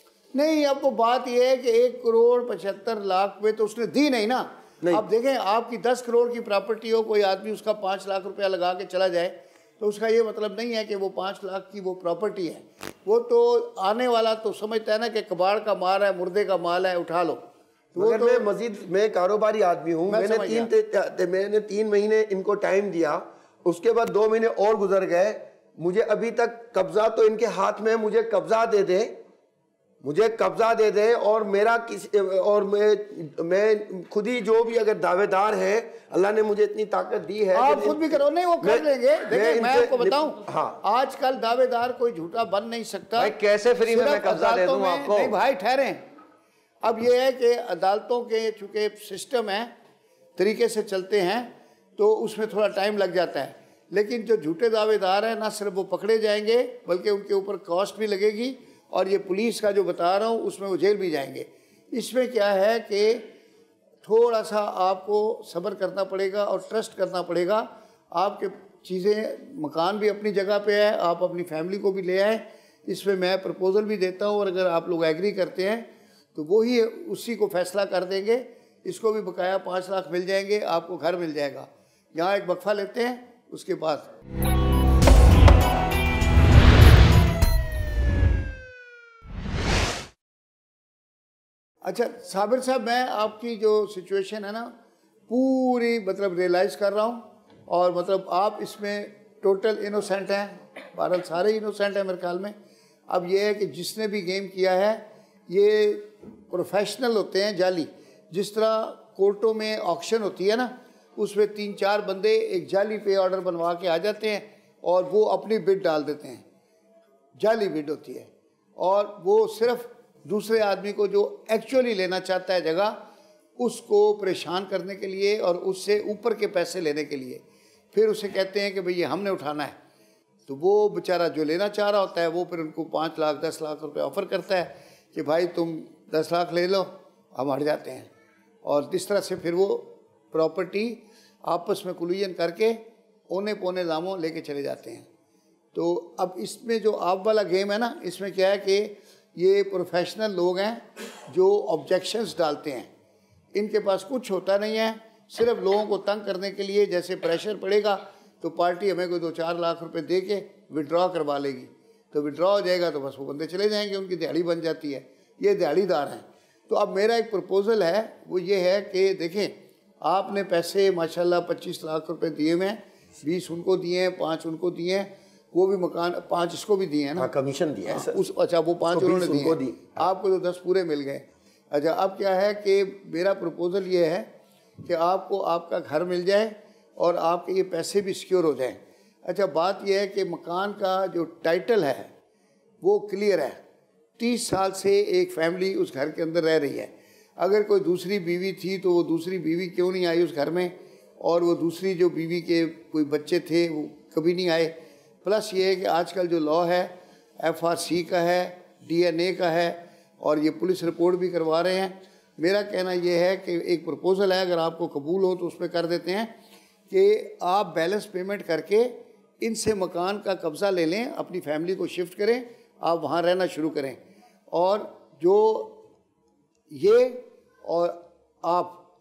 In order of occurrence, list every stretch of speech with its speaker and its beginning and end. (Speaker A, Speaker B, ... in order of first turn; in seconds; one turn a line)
Speaker A: 0.3-17.4
Speaker A: 17.9-18.5
Speaker B: 18.0-29.1
Speaker A: 20.1-20.7
Speaker B: 30.0-40.8
Speaker A: 37.5-43.3
Speaker C: 43.2-45.4
Speaker A: 43.9-46.0
Speaker A: 46.8-49.7
Speaker A: 50.4-63.3
Speaker A: 64.0-84.1
Speaker A: 91.8-94.7
Speaker A: 95.3-102.5
Speaker A: 103.1-116.4
Speaker A: 117.4-123.0
Speaker A: 123.6-129.8
Speaker A: 130.5-138.1
Speaker A: 138.7-145.1
Speaker A: 145.7-152.9
Speaker A: 153.6-177.3
Speaker B: 177.2-178.2
Speaker A: 177.9-184.3
Speaker B: 178.9-180.1
Speaker A: 184.8-192.1
Speaker A: 192.8-193.6
Speaker A: 194.2-216.3
Speaker A: 216.9-224.0
Speaker A: 224.5-225.8
Speaker A: 226.7-228.8